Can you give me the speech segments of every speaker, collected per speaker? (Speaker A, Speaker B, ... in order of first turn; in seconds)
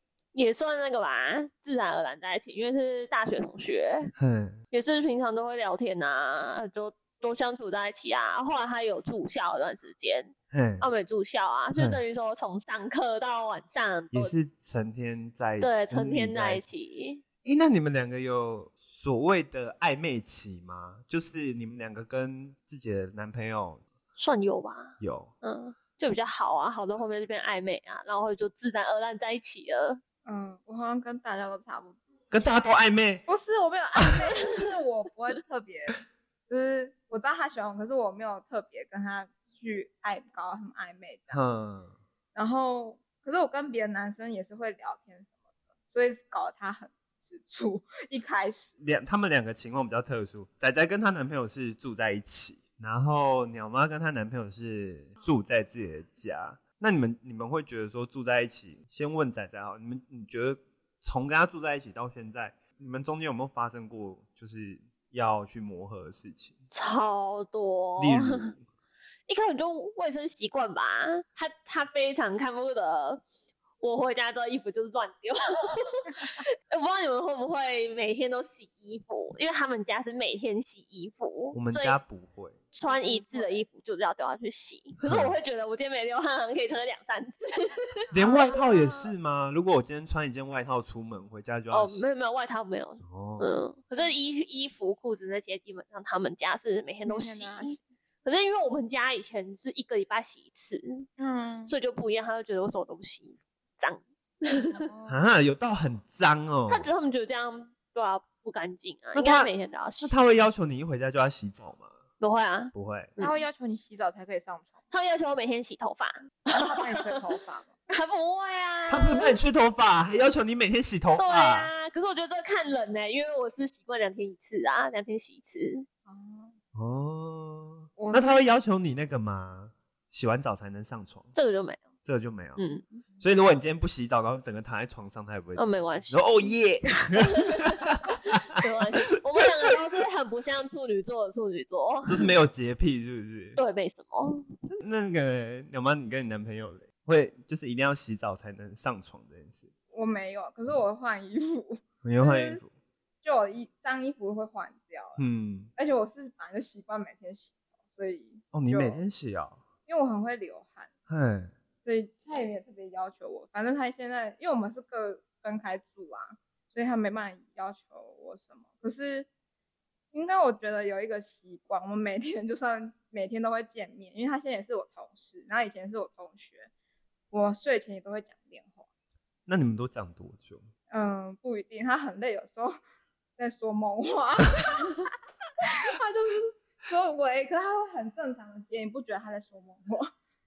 Speaker A: 0.3-4.1, 4.7-14.3, 15.6-17.2, 24.1-30.0, 66.7-68.5, 69.3-73.2, 73.8-82.0, 82.7-88.0, 91.7-101.1, 101.7-104.8, 106.7-110.2, 112.2-113.4, 114.9-117.2, 117.9-119.4, 121.2-125.8, 131.3-131.9, 132.6-133.0, 135.6-136.4, 137.2-137.8, 138.5-142.3, 143.6-144.4
Speaker B: 4.2-4.6, 10.5-10.9, 11.8-12.0, 14.1-16.6, 17.4-23.8, 25.0-25.3, 32.3-33.2, 41.3-41.9, 48.8-66.6, 68.0-68.6, 81.5-82.6, 85.0-85.3, 88.1-92.0, 93.0-93.5, 105.1-106.9, 109.1-111.9, 112.7-113.1, 118.9-121.7, 126.7-131.3, 132.0-132.6, 133.2-138.4, 142.1-143.6, 144.7-149.7, 152.0-152.7, 155.2-155.7, 158.5-159.6, 161.1-161.5, 179.4-180.7
Speaker C: 30.2-32.0, 33.2-41.5, 42.3-45.4, 45.9-48.7, 82.8-83.6, 88.1-89.1, 97.1-97.8, 101.2-101.7, 104.7-105.2, 113.2-114.8, 116.5-117.7, 126.1-126.5, 128.0-128.4, 149.9-152.6, 153.2-155.2, 155.8-159.0, 159.9-160.9, 161.8-169.3, 170.1-176.7, 177.3-178.8, 180.9-182.8, 183.4-185.1, 185.6-190.1